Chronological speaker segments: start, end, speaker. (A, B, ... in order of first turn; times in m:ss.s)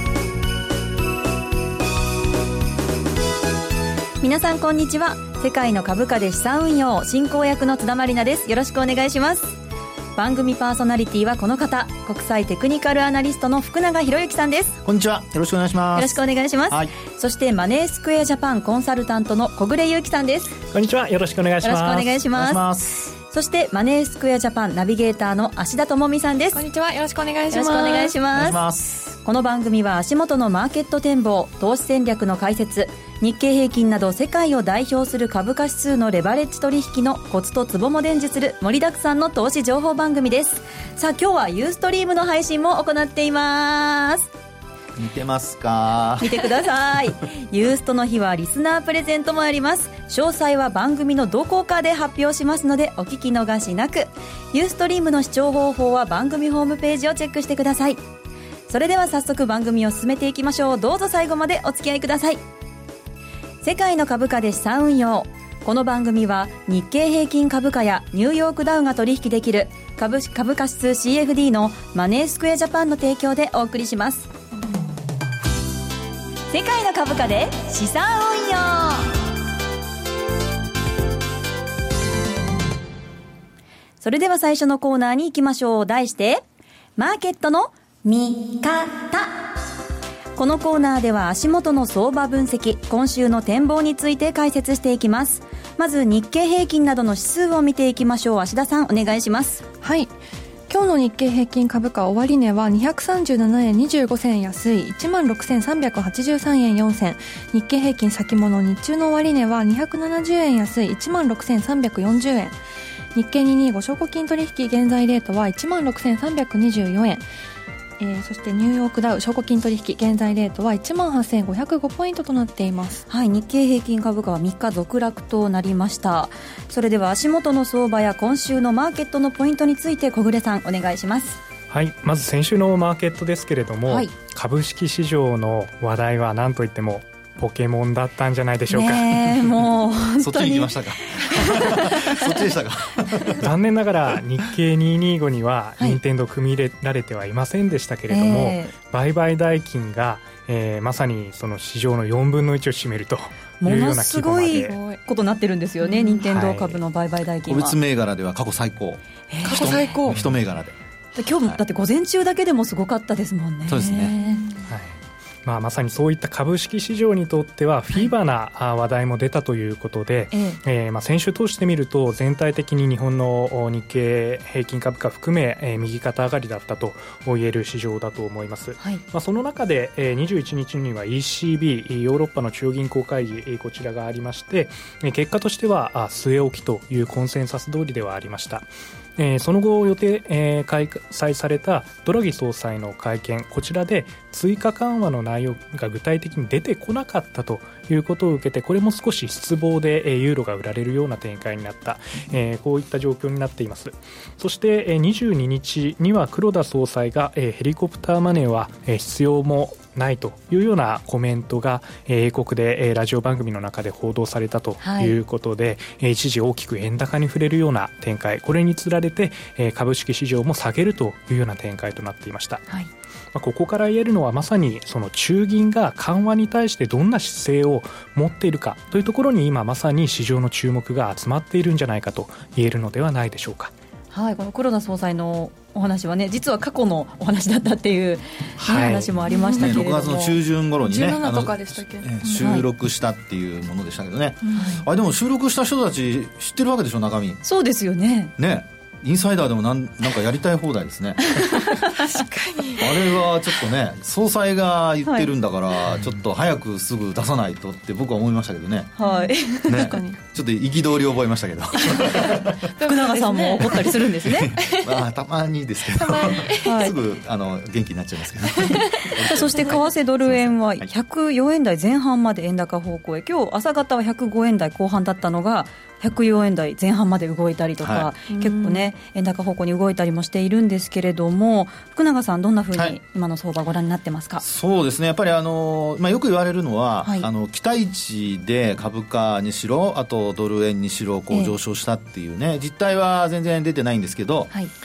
0:04.2-0:09.6 A
0:10.2-0:14.8 A
0:14.8-0:16.9 B
0:16.0-0:20.6 A
0:20.7-0:22.2 C
0:21.6-0:22.6 A
0:22.4-0:23.1 B
0:23.3-0:26.6 A
0:26.5-0:28.2 D
0:27.5-0:28.6 A
0:28.3-0:29.1 B
0:29.2-0:44.3 A
0:45.0-0:46.5 B
0:46.2-0:58.0 A
0:58.7-1:02.4 A
1:03.6-1:14.3 A
1:16.5-1:19.1 A
1:24.0-1:26.4 A
1:27.0-1:29.4 A
1:30.4-1:39.6 A
1:39.8-1:40.1 D
1:40.7-1:52.6 D
1:53.2-1:57.2 D
1:58.0-2:03.0 D
2:03.1-2:11.4 A
2:11.7-2:19.4 C
2:18.7-2:22.3 A
2:20.2-2:23.5 B
2:23.4-2:34.8 C
2:28.1-2:28.7 A
2:33.6-2:37.8 A
2:34.6-2:35.0 D
2:36.2-2:36.8 C
2:37.5-2:40.8 B
2:39.3-2:39.9 A
2:39.4-2:40.2 D
2:41.2-2:44.5 A
2:43.7-2:44.2 B
2:44.7-2:44.9 C
2:45.4-3:42.6 C
2:50.3-2:50.6 A
3:34.8-3:35.2 A
3:43.3-3:53.7 C
3:54.1-4:00.4 A
3:58.6-3:59.1 C
3:59.3-3:59.8 D
3:59.5-4:07.4 B
4:00.8-4:02.5 D
4:02.3-4:02.7 A
4:04.5-4:04.7 D
4:04.6-4:04.8 A
4:07.4-4:08.3 A
4:08.4-4:11.5 B
4:11.3-4:12.2 A
4:11.9-4:13.0 D
4:12.8-4:18.9 B
4:15.0-4:15.3 A
4:19.0-4:20.0 A
4:19.0-4:20.2 D
4:19.6-4:22.6 B
4:21.8-4:24.0 D
4:22.8-4:24.5 A
4:24.2-4:30.9 B
4:24.6-4:25.0 D
4:25.9-4:26.9 D
4:26.6-4:27.0 A
4:28.6-4:29.2 D
4:28.7-4:44.4 A
4:37.8-4:38.1 B
4:38.3-4:38.9 D
4:44.4-4:54.5 B